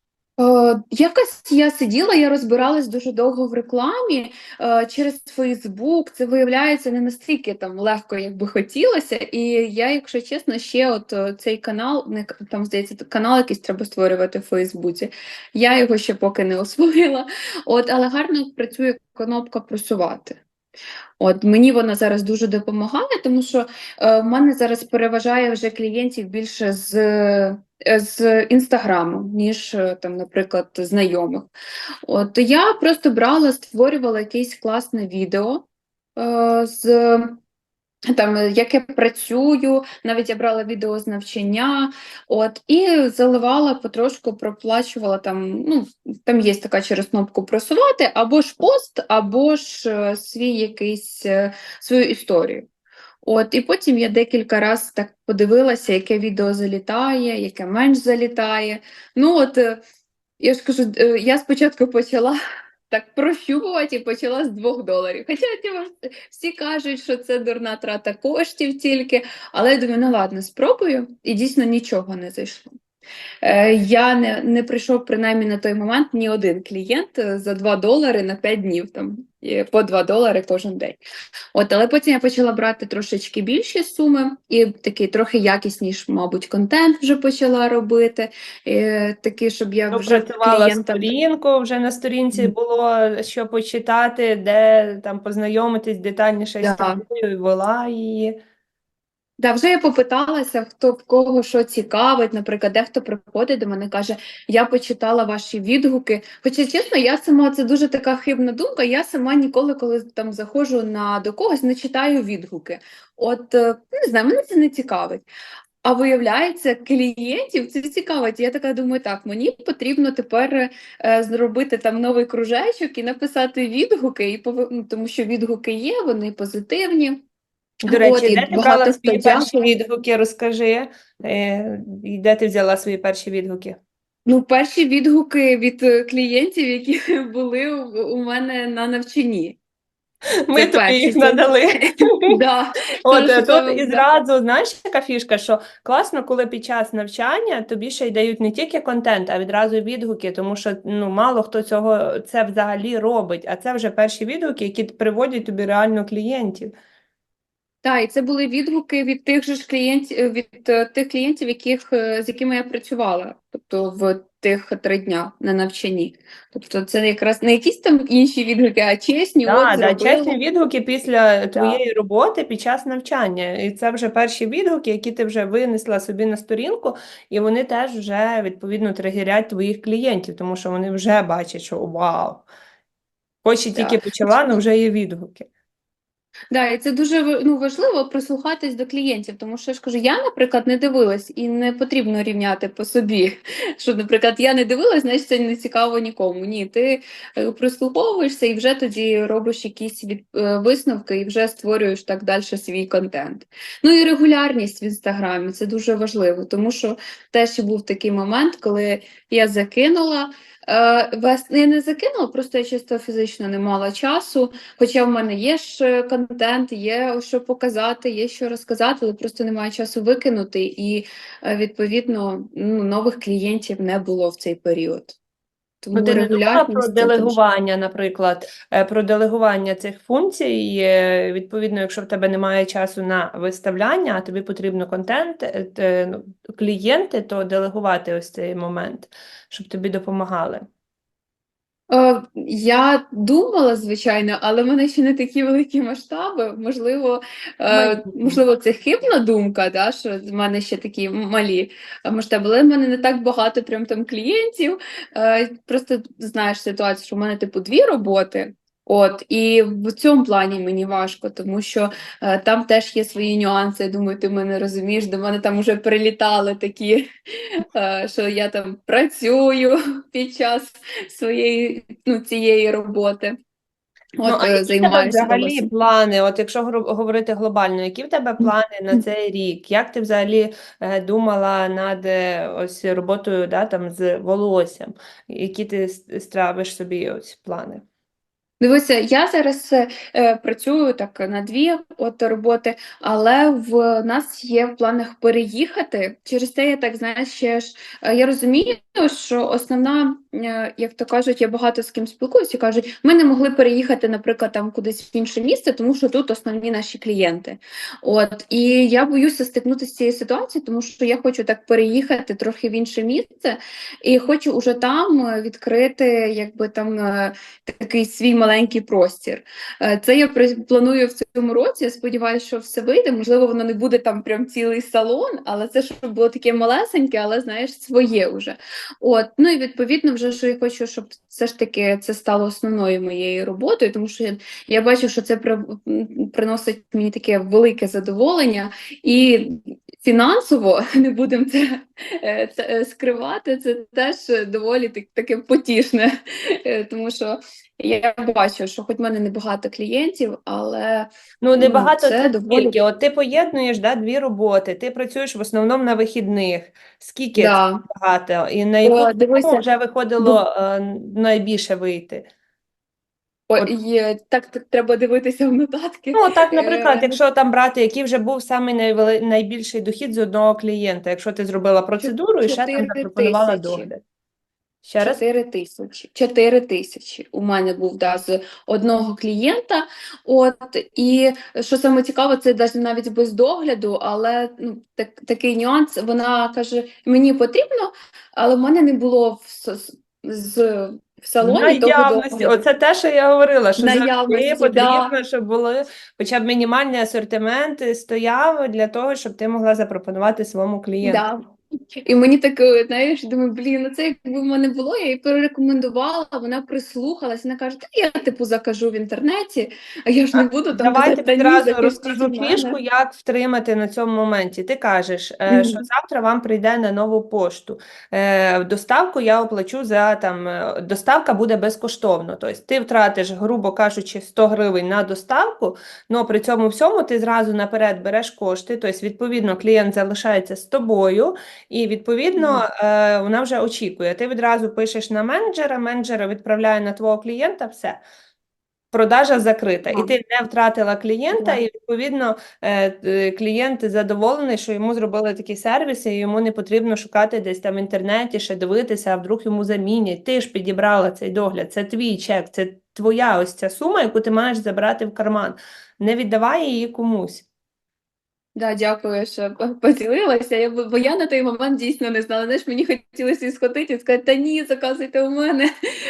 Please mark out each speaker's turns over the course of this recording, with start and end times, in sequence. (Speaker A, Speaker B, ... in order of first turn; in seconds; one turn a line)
Speaker A: 0.4-20.4
Speaker A: 21.2-31.5
Speaker A: 32.0-37.4
Speaker A: 38.1-52.7
Speaker A: 53.2-59.8
Speaker A: 60.4-62.4
Speaker A: 62.9-72.7
Speaker A: 73.4-81.0
Speaker A: 81.5-91.1
Speaker B: 89.9-98.3
Speaker A: 96.6-97.0
Speaker A: 99.4-115.3
Speaker A: 115.8-127.2
Speaker A: 127.9-129.7
Speaker B: 127.9-133.8
Speaker A: 134.3-139.6
Speaker B: 140.5-142.4
Speaker A: 140.6-141.5
Speaker A: 142.3-144.1
Speaker B: 143.1-156.7
Speaker A: 157.8-170.4
Speaker B: 169.5-182.5
Speaker A: 171.5-171.8
Speaker B: 183.4-185.5
Speaker A: 183.7-184.6
Speaker A: 186.5-225.2
Speaker A: 225.8-227.4
Speaker B: 225.9-240.7
Speaker A: 241.9-273.4
Speaker B: 247.7-248.4
Speaker A: 274.2-275.7
Speaker B: 274.2-287.8
Speaker A: 278.4-279.0
Speaker A: 288.6-352.8
Speaker B: 351.4-362.3
Speaker A: 357.4-357.8
Speaker A: 358.9-359.6
Speaker A: 363.5-367.2
Speaker B: 366.1-374.0
Speaker A: 372.0-373.9
Speaker B: 374.8-375.2
Speaker A: 375.0-392.6
Speaker B: 391.4-401.2
Speaker A: 393.8-395.1
Speaker A: 401.0-401.4
Speaker A: 402.1-412.8
Speaker B: 410.3-438.0
Speaker A: 415.5-415.8
Speaker A: 432.4-432.6
Speaker B: 438.9-457.5
Speaker A: 441.3-441.6
Speaker A: 458.6-465.7